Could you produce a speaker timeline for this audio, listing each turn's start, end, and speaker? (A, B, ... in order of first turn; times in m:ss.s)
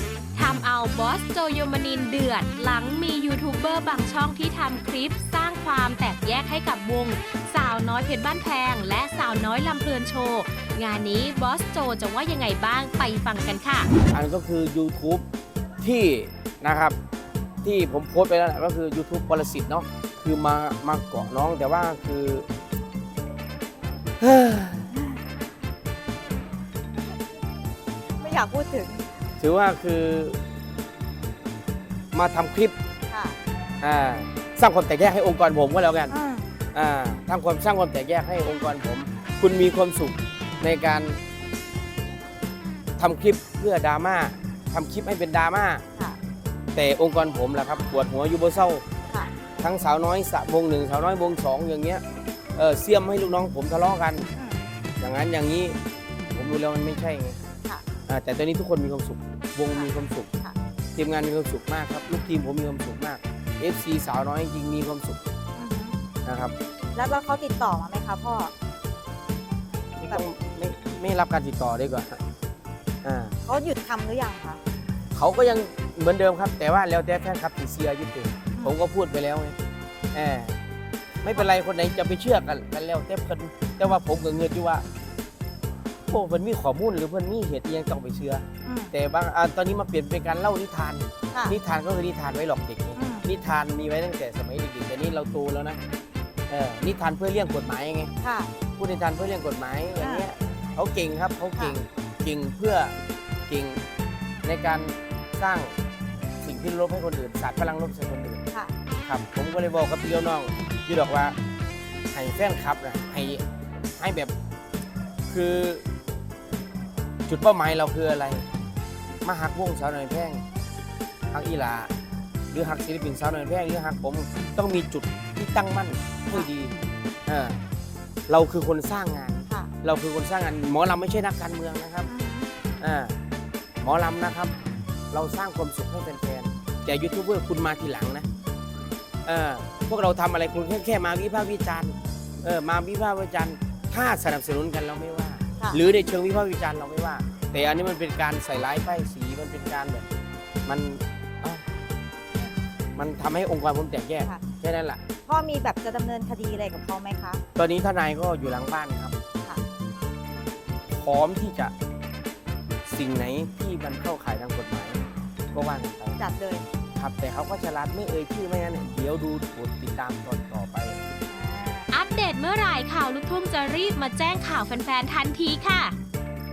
0:00.4-0:13.9 A
0:14.1-0:15.2 B
0:15.8-0:17.0 B
0:17.6-0:22.5 B
0:24.2-0:24.9 B
0:24.9-0:25.2 C
0:28.2-0:29.0 C
0:29.4-0:30.4 B
0:32.1-0:32.8 B
0:33.1-0:33.4 C
0:33.8-0:36.1 B
0:36.1-0:36.4 C
0:36.7-0:41.2 B
0:43.0-0:45.8 B
0:46.7-0:48.8 B
0:49.6-0:52.0 B
0:52.6-0:54.3 B
0:54.4-0:54.6 C
0:55.0-0:55.8 B
0:56.3-0:57.4 B
0:58.1-1:00.3 B
0:59.7-1:00.6 C
1:01.0-1:05.2 B
1:05.6-1:06.0 C
1:06.2-1:06.6 B
1:07.0-1:08.5 C
1:10.0-1:12.2 B
1:13.0-1:13.4 B
1:13.4-1:14.6 C
1:15.1-1:19.6 B
1:20.1-1:20.6 B
1:21.2-1:24.9 B
1:26.1-1:35.8 B
1:28.6-1:28.9 C
1:31.3-1:31.6 C
1:33.0-1:33.3 C
1:36.5-1:38.1 B
1:38.2-1:38.5 C
1:38.8-1:42.9 B
1:40.0-1:40.3 C
1:43.5-1:43.8 B
1:44.4-1:45.8 B
1:46.4-1:48.4 B
1:49.0-1:51.4 B
1:52.1-1:53.4 B
1:54.0-1:54.3 B
1:55.3-1:55.8 B
1:57.3-1:58.4 B
1:59.2-2:00.4 B
2:01.3-2:01.9 B
2:02.5-2:06.7 B
2:07.3-2:07.6 B
2:08.3-2:12.1 B
2:12.1-2:12.5 C
2:12.8-2:13.2 B
2:13.8-2:14.5 B
2:15.1-2:18.3 B
2:19.3-2:30.1 B
2:30.7-2:31.6 B
2:33.0-2:35.0 B
2:35.2-2:37.4 C
2:37.6-2:39.2 B
2:40.9-2:41.7 B
2:42.8-2:45.0 B
2:45.5-2:46.2 B
2:46.2-2:46.6 C
2:47.0-2:51.0 B
2:51.3-2:51.9 C
2:51.9-2:56.0 A